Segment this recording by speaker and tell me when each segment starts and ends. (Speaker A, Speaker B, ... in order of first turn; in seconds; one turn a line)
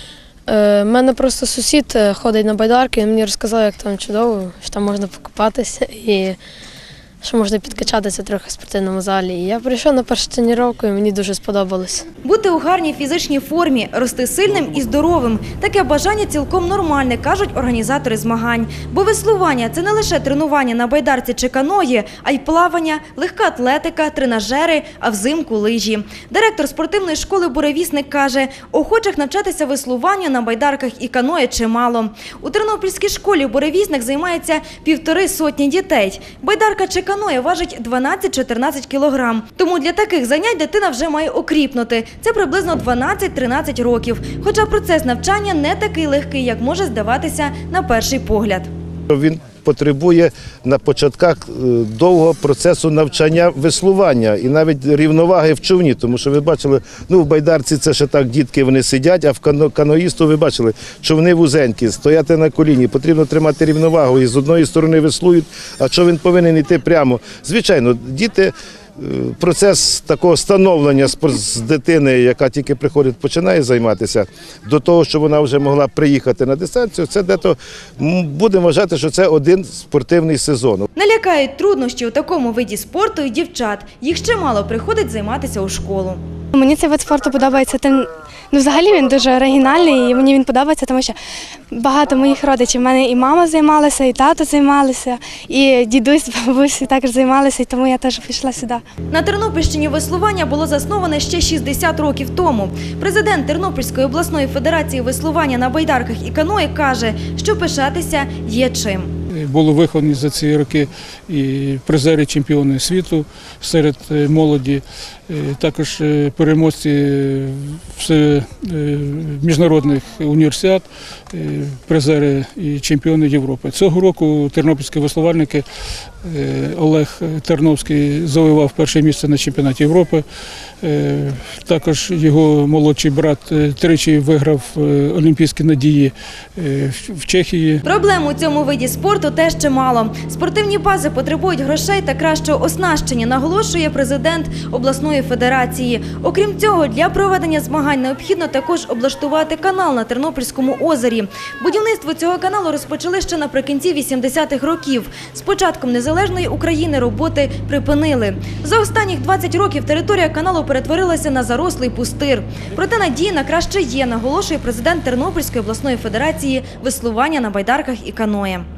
Speaker A: 0.5-6.4
Speaker A: 7.2-12.1
Speaker B: 12.2-48.7
Speaker C: 49.1-80.9
Speaker B: 81.0-86.2
Speaker D: 86.5-91.2
Speaker D: 91.7-98.8
Speaker B: 99.1-109.1
Speaker E: 109.3-125.7
Speaker E: 126.2-130.2
Speaker E: 130.8-137.8
Speaker B: 137.8-168.7